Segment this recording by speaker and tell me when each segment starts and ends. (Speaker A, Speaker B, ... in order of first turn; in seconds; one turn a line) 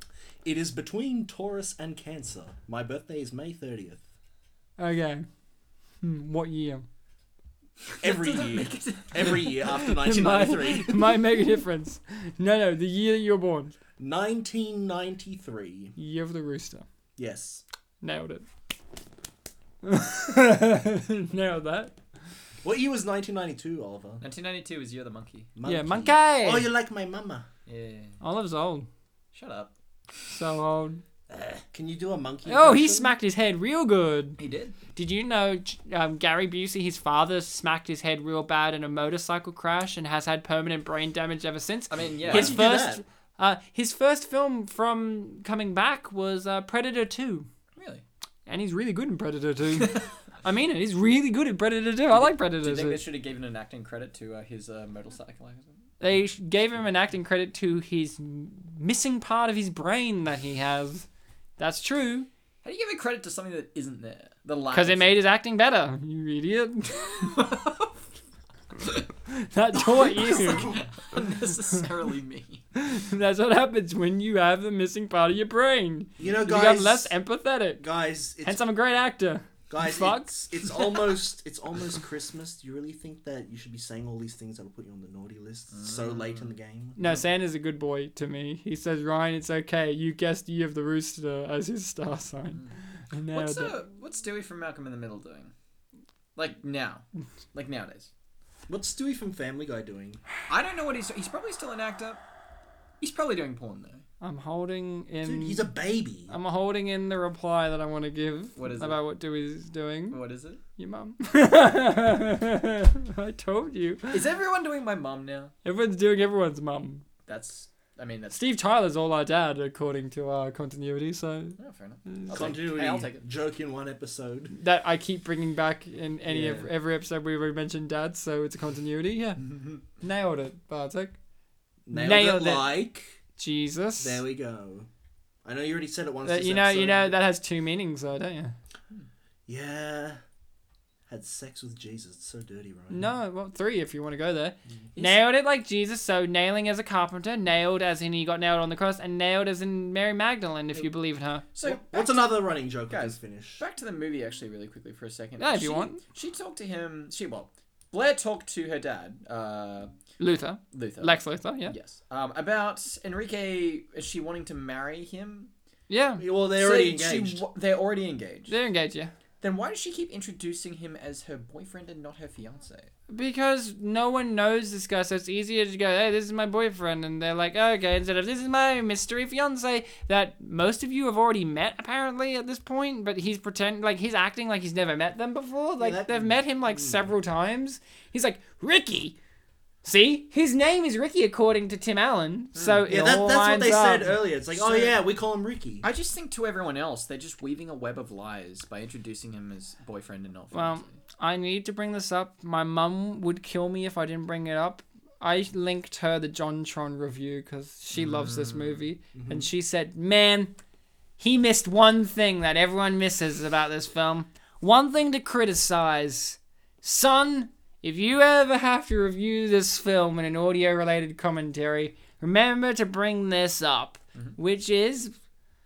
Speaker A: 0.4-4.0
Speaker B: 4.8-5.2
Speaker B: 6.0-6.8
Speaker C: 7.9-9.6
Speaker A: 8.0-11.2
Speaker B: 9.7-13.7
Speaker A: 14.0-15.9
Speaker B: 15.9-16.9
Speaker A: 17.2-17.6
Speaker B: 18.0-18.4
Speaker B: 19.8-21.9
Speaker A: 22.6-24.2
Speaker C: 24.2-25.5
Speaker A: 25.6-27.5
Speaker B: 25.6-26.7
Speaker C: 27.6-28.2
Speaker B: 28.2-28.9
Speaker C: 29.3-30.3
Speaker B: 30.3-31.0
Speaker A: 31.3-33.1
Speaker B: 32.5-34.4
Speaker C: 34.4-34.8
Speaker B: 34.9-47.5
Speaker C: 41.9-42.6
Speaker A: 42.2-43.0
Speaker C: 47.8-48.0
Speaker B: 48.5-53.0
Speaker C: 49.8-50.1
Speaker C: 52.1-55.8
Speaker B: 56.0-61.1
Speaker B: 61.6-62.3
Speaker C: 62.6-65.2
Speaker B: 64.7-67.4
Speaker C: 67.2-67.9
Speaker B: 69.2-70.8
Speaker C: 69.8-72.6
Speaker B: 72.7-77.8
Speaker A: 76.2-77.1
Speaker A: 77.8-78.6
Speaker B: 78.4-80.8
Speaker A: 79.7-87.2
Speaker C: 85.7-86.5
Speaker B: 87.0-93.8
Speaker C: 93.3-95.5
Speaker C: 96.3-98.1
Speaker A: 98.7-100.2
Speaker C: 100.5-102.2
Speaker C: 103.0-104.0
Speaker B: 104.2-105.7
Speaker A: 105.2-106.3
Speaker B: 106.3-110.2
Speaker C: 108.6-109.0
Speaker C: 110.1-110.6
Speaker B: 110.8-114.2
Speaker C: 114.1-115.5
Speaker B: 115.6-117.0
Speaker C: 117.2-118.4
Speaker B: 118.3-121.6
Speaker C: 121.6-123.2
Speaker B: 122.1-122.5
Speaker A: 122.3-124.5
Speaker B: 124.5-131.2
Speaker A: 126.3-126.7
Speaker C: 129.5-129.8
Speaker A: 131.8-133.2
Speaker B: 131.9-132.7
Speaker B: 133.4-134.2
Speaker A: 134.0-134.9
Speaker A: 135.4-137.2
Speaker B: 136.2-138.5
Speaker A: 139.5-140.2
Speaker A: 141.1-143.1
Speaker B: 142.9-151.4
Speaker C: 144.9-145.2
Speaker C: 151.5-159.9
Speaker A: 151.6-153.6
Speaker B: 155.4-156.0
Speaker B: 160.2-161.7
Speaker C: 160.7-165.5
Speaker B: 165.9-166.2
Speaker A: 166.2-167.4
Speaker C: 166.6-168.5
Speaker B: 168.5-169.1
Speaker C: 169.4-172.9
Speaker B: 173.1-189.2
Speaker A: 185.8-187.1
Speaker B: 189.8-194.9
Speaker C: 192.5-192.9
Speaker A: 192.8-195.8
Speaker C: 195.8-201.0
Speaker B: 200.5-210.5
Speaker C: 207.9-208.8
Speaker A: 209.1-209.5
Speaker B: 211.2-225.1